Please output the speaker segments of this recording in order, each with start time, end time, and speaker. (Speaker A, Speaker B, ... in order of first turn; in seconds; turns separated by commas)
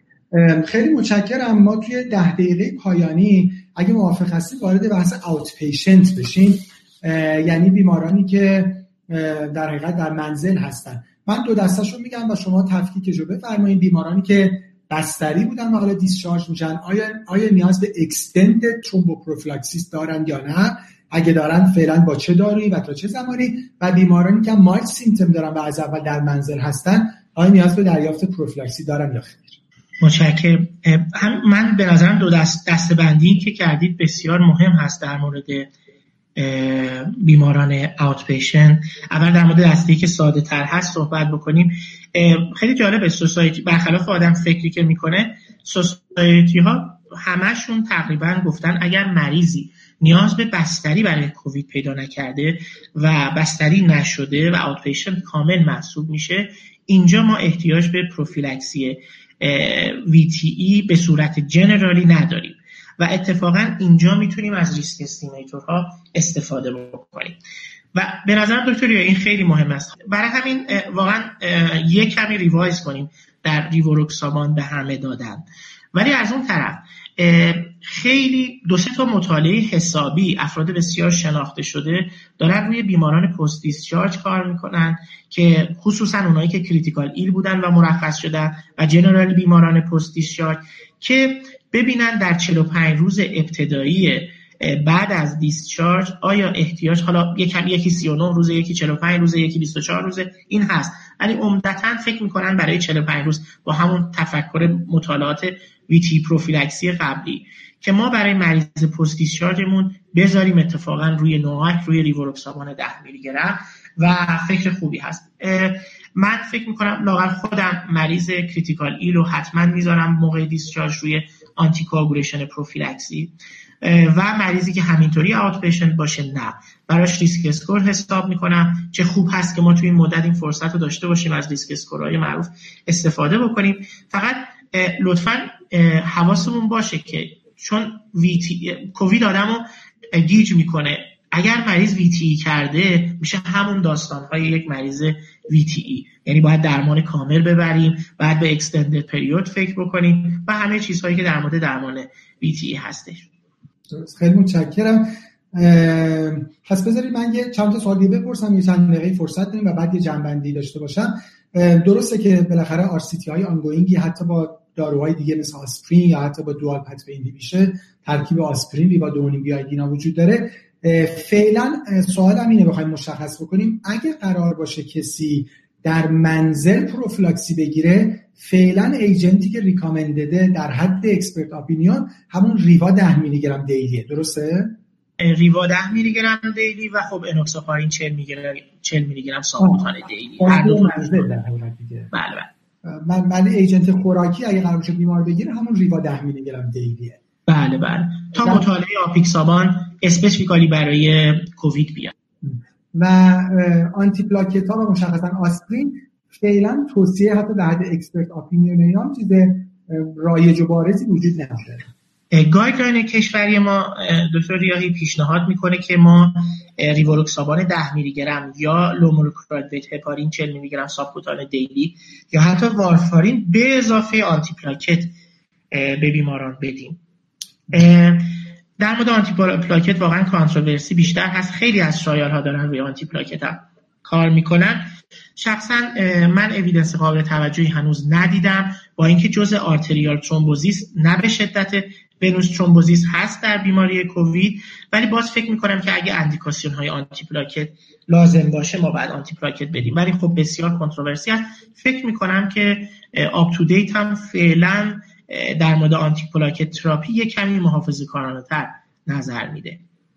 Speaker A: 0.3-29.6, Speaker B: 30.0-35.7, Speaker B: 36.4-67.4, Speaker B: 67.9-153.3, Speaker A: 153.9-184.8, Speaker B: 185.2-191.3, Speaker A: 189.6-192.1, Speaker B: 192.1-192.5, Speaker A: 192.8-197.2, Speaker B: 197.5-202.1, Speaker A: 198.4-198.6, Speaker A: 202.4-211.9, Speaker B: 212.3-225.1, Speaker B: 225.7-227.0, Speaker B: 227.7-259.8